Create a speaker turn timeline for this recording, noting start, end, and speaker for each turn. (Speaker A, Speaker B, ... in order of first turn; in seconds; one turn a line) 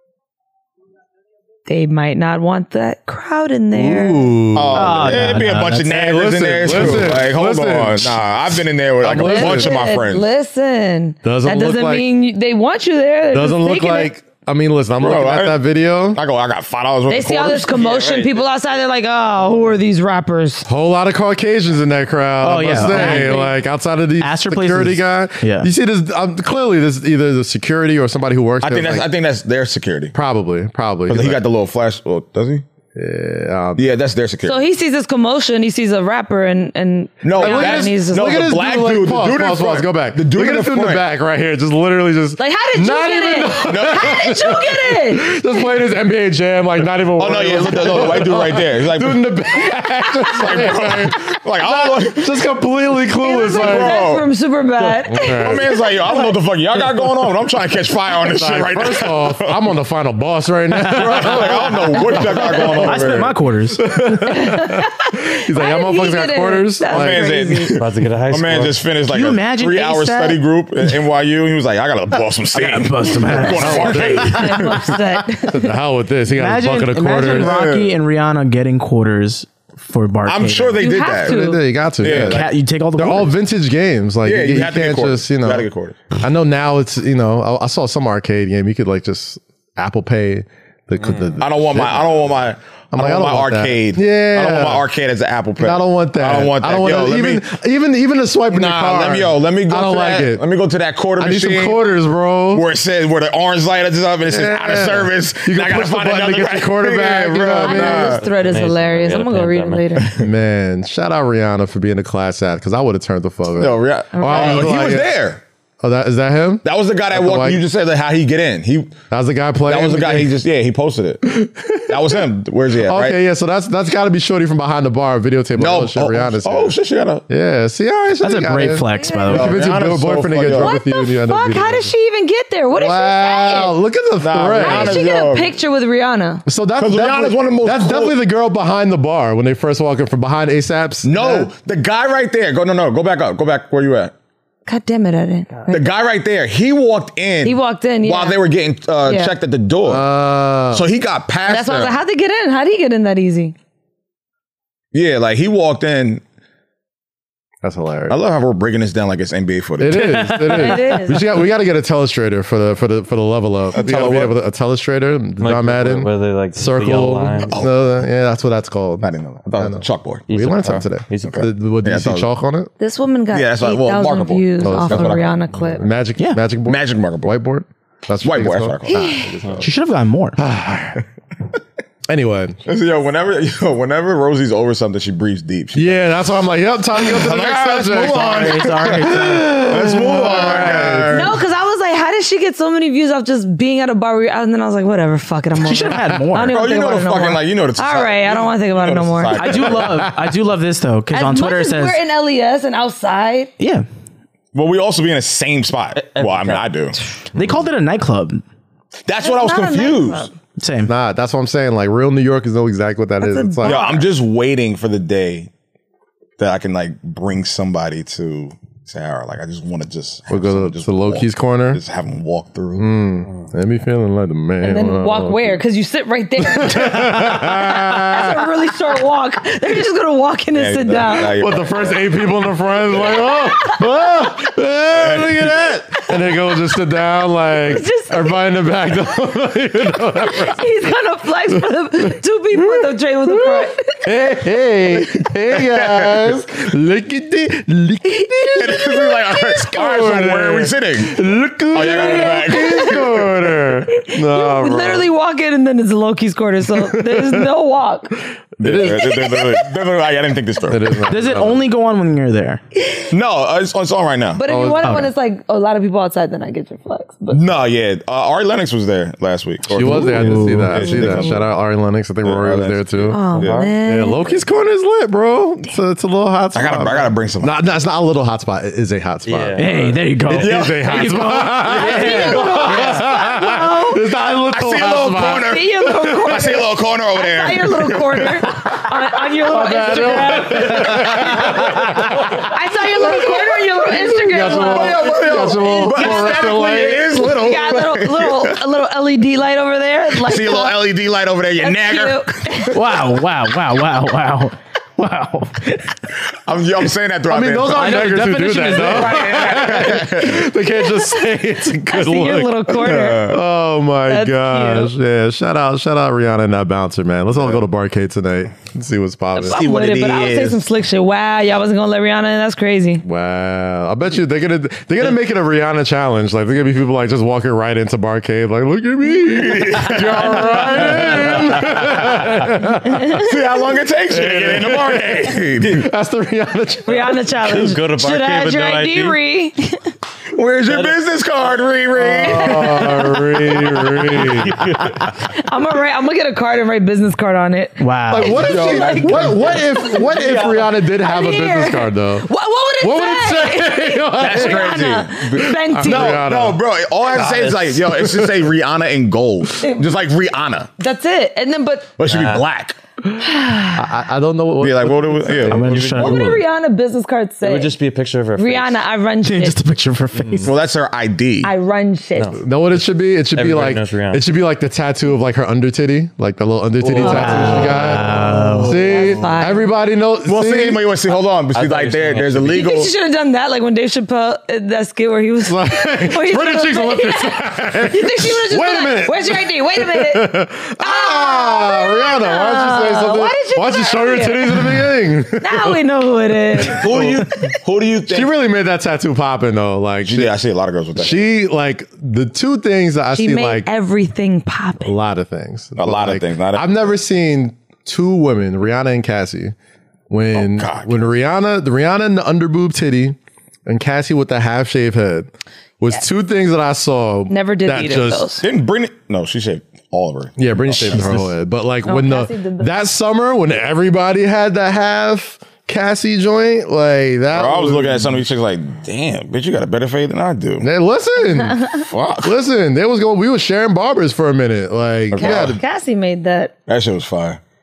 Speaker A: 1.7-4.3
Speaker B: 3.7-8.3
Speaker C: 4.5-10.3
Speaker D: 4.7-5.9
Speaker B: 9.0-9.8
Speaker A: 9.1-14.1
Speaker B: 11.2-12.1
Speaker B: 13.3-16.2
Speaker C: 15.0-15.6
Speaker C: 16.1-17.9
Speaker A: 17.1-20.7
Speaker E: 17.7-18.4
Speaker B: 20.7-29.1
Speaker D: 22.4-23.5
Speaker A: 22.8-23.5
Speaker D: 24.2-25.7
Speaker C: 28.6-30.1
Speaker B: 30.1-31.4
Speaker C: 31.1-32.6
Speaker B: 33.0-33.9
Speaker C: 33.8-34.6
Speaker A: 34.5-38.4
Speaker C: 37.2-41.0
Speaker B: 37.4-54.0
Speaker A: 42.4-45.4
Speaker C: 43.6-44.2
Speaker C: 47.2-49.3
Speaker C: 50.3-52.4
Speaker A: 53.2-56.4
Speaker C: 53.5-54.2
Speaker B: 55.0-55.6
Speaker C: 55.4-59.6
Speaker B: 58.3-67.3
Speaker C: 60.9-63.3
Speaker D: 61.1-61.6
Speaker D: 62.4-64.0
Speaker A: 64.3-64.9
Speaker A: 65.5-67.7
Speaker C: 66.9-74.9
Speaker E: 67.8-68.8
Speaker D: 69.1-70.4
Speaker D: 72.5-74.4
Speaker B: 73.5-74.6
Speaker A: 74.0-75.7
Speaker B: 75.5-77.5
Speaker D: 76.4-80.9
Speaker C: 77.3-78.0
Speaker C: 80.2-81.4
Speaker A: 80.8-81.6
Speaker B: 81.2-85.7
Speaker C: 82.0-82.5
Speaker D: 82.1-83.3
Speaker C: 84.2-86.0
Speaker B: 86.2-92.3
Speaker E: 91.0-91.4
Speaker C: 91.4-97.5
Speaker B: 92.9-94.8
Speaker B: 95.6-100.4
Speaker C: 98.5-101.8
Speaker B: 101.2-102.7
Speaker C: 102.5-108.2
Speaker B: 104.3-108.2
Speaker A: 107.6-110.1
Speaker E: 108.2-110.0
Speaker B: 110.1-115.1
Speaker C: 113.6-115.4
Speaker A: 114.1-114.8
Speaker B: 115.8-117.6
Speaker C: 116.6-119.0
Speaker B: 119.1-120.3
Speaker C: 119.7-121.2
Speaker B: 121.3-122.2
Speaker C: 121.9-123.2
Speaker B: 122.8-126.8
Speaker C: 125.6-127.3
Speaker B: 127.3-131.9
Speaker D: 128.2-129.5
Speaker A: 129.0-129.4
Speaker C: 129.3-130.8
Speaker A: 130.6-133.8
Speaker B: 132.7-135.0
Speaker C: 134.2-135.6
Speaker A: 134.6-136.4
Speaker B: 136.5-141.5
Speaker C: 136.8-138.2
Speaker C: 141.0-144.1
Speaker A: 144.7-145.9
Speaker C: 145.7-150.1
Speaker A: 147.4-148.4
Speaker A: 149.1-149.3
Speaker B: 149.9-150.9
Speaker C: 150.7-152.0
Speaker A: 151.5-153.6
Speaker C: 154.9-156.2
Speaker B: 157.6-158.2
Speaker C: 158.1-160.4
Speaker B: 159.8-172.7
Speaker D: 160.1-160.7
Speaker A: 160.5-161.3
Speaker C: 163.7-164.4
Speaker E: 165.4-167.6
Speaker C: 167.5-168.0
Speaker C: 169.0-170.3
Speaker E: 170.3-171.5
Speaker C: 171.2-172.3
Speaker A: 172.8-175.9
Speaker C: 173.3-175.4
Speaker B: 174.6-179.7
Speaker C: 176.7-177.4
Speaker C: 178.2-179.2
Speaker A: 178.9-179.3
Speaker D: 179.6-180.4
Speaker B: 180.4-181.0
Speaker B: 182.1-182.6
Speaker C: 182.7-186.0
Speaker B: 185.7-191.3
Speaker C: 186.9-191.4
Speaker D: 187.9-189.7
Speaker A: 191.1-199.4
Speaker D: 195.6-196.6
Speaker C: 196.4-199.9
Speaker D: 199.3-202.0
Speaker B: 199.5-200.1
Speaker A: 201.1-203.5
Speaker D: 203.6-203.9
Speaker C: 204.5-207.0
Speaker E: 206.0-206.7
Speaker D: 207.3-208.4
Speaker C: 209.1-210.3
Speaker A: 209.2-210.3
Speaker D: 210.6-210.9
Speaker B: 210.9-213.8
Speaker A: 213.2-214.1
Speaker C: 213.6-215.5
Speaker C: 216.4-222.9
Speaker B: 220.3-221.8
Speaker B: 222.8-225.6
Speaker A: 224.6-231.3
Speaker B: 226.4-228.5
Speaker C: 230.5-232.1
Speaker B: 231.4-240.6
Speaker A: 232.9-233.9
Speaker C: 234.9-235.7
Speaker A: 237.6-238.4
Speaker A: 240.2-244.0
Speaker B: 241.5-255.1
Speaker C: 244.9-246.4
Speaker A: 248.2-249.2
Speaker C: 248.6-253.1
Speaker A: 251.8-253.1
Speaker A: 253.9-258.2
Speaker B: 256.9-257.5
Speaker C: 258.6-261.1
Speaker B: 258.6-259.3
Speaker A: 259.0-259.6
Speaker B: 260.7-261.7
Speaker D: 261.1-262.6
Speaker C: 263.1-264.4
Speaker A: 264.4-267.4
Speaker B: 264.5-264.9
Speaker D: 264.8-265.1
Speaker C: 267.3-271.5
Speaker B: 269.7-273.3
Speaker D: 269.8-271.2
Speaker C: 272.2-273.6
Speaker A: 273.1-274.2
Speaker E: 273.4-274.4
Speaker B: 273.8-279.7
Speaker C: 276.5-277.5
Speaker E: 279.3-280.4
Speaker D: 279.6-283.0
Speaker C: 280.3-281.0
Speaker B: 280.3-286.5
Speaker A: 281.7-284.0
Speaker C: 284.5-288.5
Speaker A: 285.3-300.8
Speaker B: 289.4-292.5
Speaker C: 290.8-291.9
Speaker C: 293.1-293.5
Speaker B: 294.0-297.1
Speaker C: 294.3-298.6
Speaker C: 300.1-302.8
Speaker A: 301.6-302.8
Speaker D: 302.7-305.9
Speaker C: 306.3-308.1
Speaker B: 307.3-319.6
Speaker D: 307.7-309.3
Speaker C: 308.8-310.5
Speaker A: 310.8-311.3
Speaker A: 311.9-313.3
Speaker C: 312.7-313.4
Speaker A: 314.1-314.9
Speaker C: 317.4-317.6
Speaker A: 319.4-323.0
Speaker C: 319.5-320.6
Speaker B: 323.0-333.3
Speaker C: 329.2-332.4
Speaker E: 330.8-331.5
Speaker A: 332.8-333.3
Speaker C: 333.1-335.9
Speaker B: 334.1-337.2
Speaker A: 336.9-339.8
Speaker E: 337.4-339.2
Speaker C: 340.3-343.1
Speaker E: 340.7-341.0
Speaker B: 342.0-344.6
Speaker E: 343.7-345.1
Speaker A: 345.2-356.3
Speaker D: 347.8-348.4
Speaker B: 348.1-352.3
Speaker C: 348.3-349.9
Speaker E: 350.0-350.3
Speaker B: 352.8-354.8
Speaker C: 354.2-360.7
Speaker B: 355.4-356.6
Speaker E: 357.2-357.8
Speaker B: 357.7-358.5
Speaker A: 359.6-359.9
Speaker A: 360.8-361.9
Speaker C: 362.0-362.8
Speaker E: 362.1-362.4
Speaker A: 363.2-363.9
Speaker B: 363.7-365.8
Speaker C: 364.6-365.7
Speaker D: 365.5-366.4
Speaker E: 365.5-366.4
Speaker A: 366.0-367.8
Speaker E: 367.4-368.8
Speaker A: 368.4-369.6
Speaker D: 369.2-370.5
Speaker C: 370.4-371.5
Speaker A: 371.4-372.4
Speaker E: 372.1-372.4
Speaker B: 372.4-380.8
Speaker E: 373.4-374.2
Speaker E: 376.8-379.3
Speaker D: 377.0-378.8
Speaker A: 377.0-377.7
Speaker A: 378.4-379.7
Speaker C: 380.3-382.9
Speaker E: 381.5-382.7
Speaker A: 382.5-394.9
Speaker B: 385.5-395.8
Speaker A: 395.4-396.9
Speaker B: 396.6-397.5
Speaker C: 396.7-398.3
Speaker B: 398.1-400.3
Speaker C: 400.0-401.2
Speaker B: 401.0-403.7
Speaker A: 403.1-404.9
Speaker B: 404.8-409.6
Speaker C: 405.8-406.9
Speaker B: 410.1-418.4
Speaker C: 410.3-410.9
Speaker A: 417.3-418.4
Speaker C: 418.4-421.2
Speaker B: 420.4-428.2
Speaker A: 421.9-422.7
Speaker C: 427.3-430.7
Speaker B: 430.6-435.6
Speaker C: 431.8-432.4
Speaker C: 435.1-435.6
Speaker A: 435.1-436.5
Speaker C: 436.7-437.4